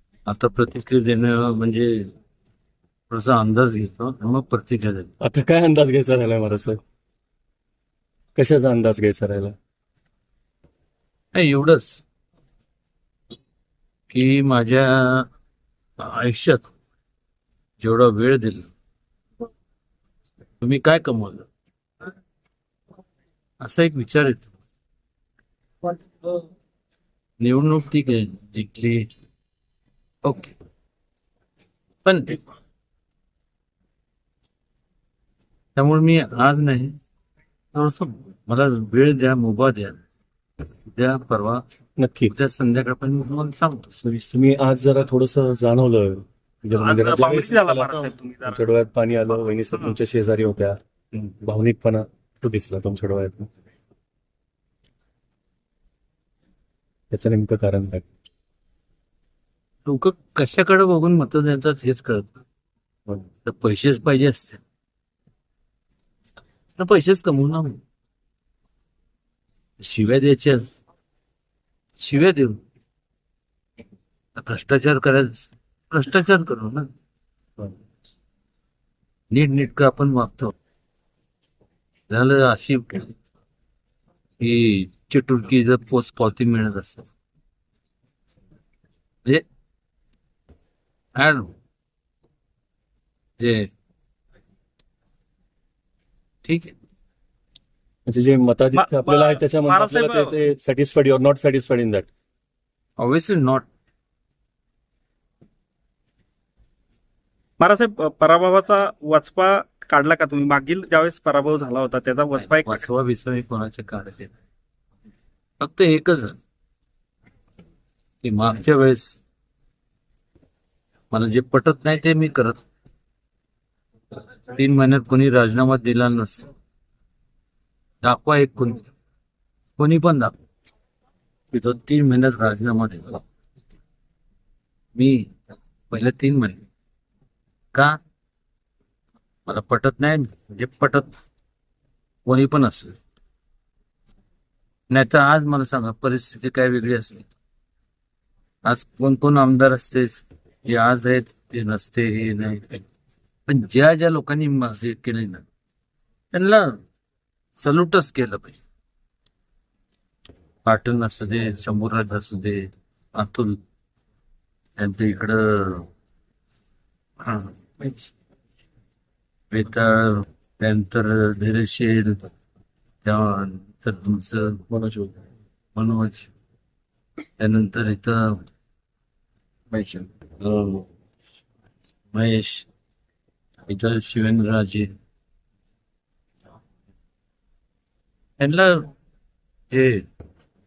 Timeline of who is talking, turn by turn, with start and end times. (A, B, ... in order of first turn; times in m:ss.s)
0:00.2-0:02.1 A
0:03.1-0:05.1 A
0:05.2-0:06.8 B
0:08.3-0:09.5 B
0:11.3-0:12.0 A
0:14.1-0:15.3 A
0:16.0-0:16.7 A
0:17.8-0:18.7 A
0:20.6-0:21.5 A
0:23.6-0:24.5 A
0:25.8-0:26.4 A
0:27.4-0:29.1 A
0:30.2-0:30.5 A
0:32.0-0:32.4 A
0:35.7-0:36.9 A
0:37.7-0:40.0 A
0:40.9-0:41.6 A
0:42.0-0:42.3 B
0:42.3-0:43.9 A
0:44.0-0:50.7 B
0:46.8-0:48.6 C
0:51.3-0:53.5 B
0:57.1-0:58.0 B
0:59.8-1:02.3 A
1:03.4-1:04.6 A
1:06.8-1:07.8 A
1:09.8-1:10.7 A
1:12.0-1:12.6 A
1:14.4-1:16.9 A
1:19.3-1:20.5 A
1:22.1-1:23.1 A
1:24.4-1:27.0 A
1:31.2-1:31.5 A
1:33.4-1:33.7 A
1:36.4-1:36.7 A
1:38.0-1:42.1 B
1:38.7-1:40.3 C
1:43.0-1:43.6 A
1:47.6-1:52.8 C
1:52.4-1:54.3 A
1:55.6-1:56.4 A
1:58.2-1:59.2 A
2:01.1-2:02.6 A
2:04.5-2:06.5 A
2:08.0-2:08.8 A
2:09.8-2:10.3 A
2:11.5-2:13.2 A
2:14.9-2:15.3 A
2:15.9-2:16.6 A
2:19.4-2:21.1 A
2:22.2-2:23.0 A
2:24.9-2:27.2 A
2:28.6-2:32.8 A
2:33.5-2:35.4 A
2:36.3-2:36.8 A
2:37.6-2:38.6 A
2:40.6-2:43.6 A
2:44.8-2:45.9 A
2:47.2-2:48.0 A
2:49.5-2:52.2 A
2:53.0-2:55.1 A
2:55.7-2:56.3 A
2:57.4-2:58.4 A
2:59.7-3:00.8 A
3:02.1-3:02.6 A
3:03.7-3:04.9 A
3:08.4-3:08.8 A
3:09.7-3:10.0 A